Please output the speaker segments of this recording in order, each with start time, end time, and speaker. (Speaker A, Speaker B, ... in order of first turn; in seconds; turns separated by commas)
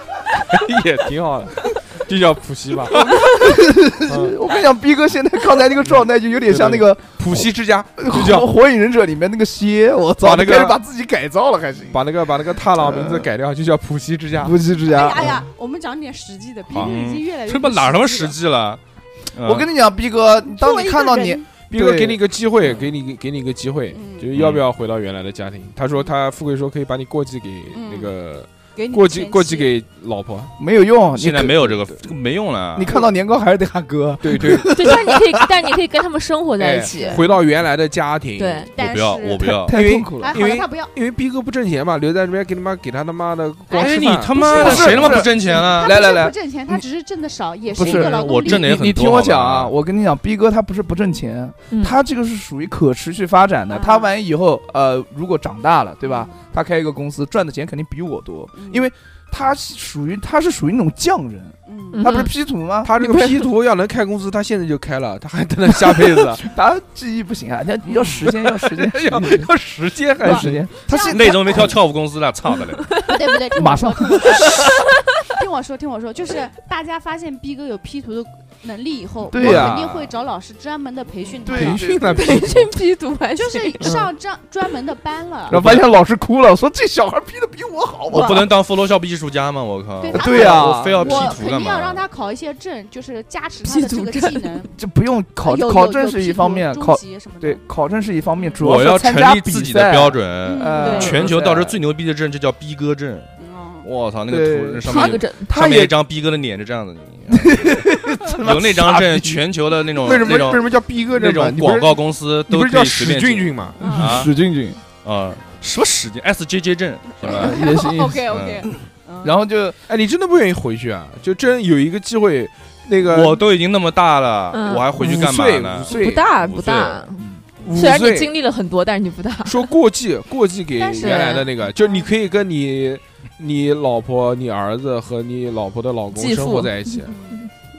Speaker A: 0.5-3.3, Speaker B: 2.9-7.5, Speaker A: 4.1-4.4, Speaker A: 6.5-8.5, Speaker B: 8.0-12.0, Speaker A: 10.2-10.8, Speaker A: 11.9-14.6, Speaker B: 12.7-13.3, Speaker B: 14.4-15.4, Speaker C: 14.8-18.4, Speaker D: 16.7-18.8, Speaker D: 19.3-19.7, Speaker B: 19.4-22.2, Speaker C: 20.6-21.5, Speaker A: 21.7-30.5, Speaker C: 23.9-24.3, Speaker D: 24.3-24.6, Speaker C: 27.7-28.1, Speaker C: 28.8-29.7, Speaker B: 30.6-31.9, Speaker D: 31.1-33.0, Speaker B: 32.8-35.5, Speaker A: 34.2-34.9, Speaker E: 34.6-37.3, Speaker A: 36.6-38.7, Speaker E: 38.4-38.7, Speaker C: 38.8-40.9, Speaker D: 38.8-39.8, Speaker B: 39.7-40.4, Speaker A: 39.7-45.2, Speaker D: 43.7-46.0, Speaker C: 43.8-48.7, Speaker B: 44.4-46.8, Speaker B: 47.7-62.9, Speaker D: 47.8-49.7, Speaker E: 51.7-52.0, Speaker C: 53.7-54.1, Speaker C: 56.0-56.4, Speaker C: 58.5-58.9, Speaker C: 61.7-62.2, Speaker E: 61.9-62.3, Speaker A: 62.8-66.5, Speaker E: 63.0-63.5, Speaker B: 65.9-69.5, Speaker A: 68.1-70.7, Speaker B: 70.2-71.8, Speaker C: 70.9-71.7, Speaker D: 70.9-73.0, Speaker E: 72.8-73.2, Speaker C: 73.0-74.7, Speaker B: 73.5-74.6, Speaker E: 74.2-75.2, Speaker C: 75.2-81.9, Speaker B: 79.3-79.8, Speaker A: 79.4-79.9, Speaker D: 79.4-80.1, Speaker B: 81.4-82.5, Speaker A: 81.5-82.7, Speaker E: 82.1-83.9, Speaker C: 83.4-85.6, Speaker A: 83.8-84.1, Speaker B: 85.5-88.5, Speaker A: 85.5-85.9, Speaker D: 88.1-92.0, Speaker C: 88.1-88.5, Speaker C: 90.0-94.7, Speaker B: 90.1-91.3, Speaker E: 93.6-94.7, Speaker B: 94.8-101.8, Speaker C: 95.4-97.6, Speaker C: 98.4-98.6, Speaker D: 98.6-103.3, Speaker C: 100.4-101.4, Speaker C: 103.4-103.9, Speaker D: 103.8-114.3, Speaker B: 104.3-105.9, Speaker E: 104.8-105.6, Speaker B: 107.3-109.4, Speaker A: 110.0-113.8, Speaker C: 113.8-114.2, Speaker B: 113.8-114.8, Speaker D: 115.0-117.7, Speaker C: 117.2-119.4, Speaker B: 117.2-119.8, Speaker D: 118.2-118.7, Speaker A: 119.9-123.4, Speaker D: 123.1-127.1, Speaker E: 124.5-125.3, Speaker A: 125.0-126.3, Speaker E: 125.9-129.7, Speaker A: 127.6-128.3, Speaker A: 129.4-137.2, Speaker C: 130.8-132.1, Speaker E: 131.0-131.5, Speaker E: 136.1-137.4, Speaker C: 137.1-137.4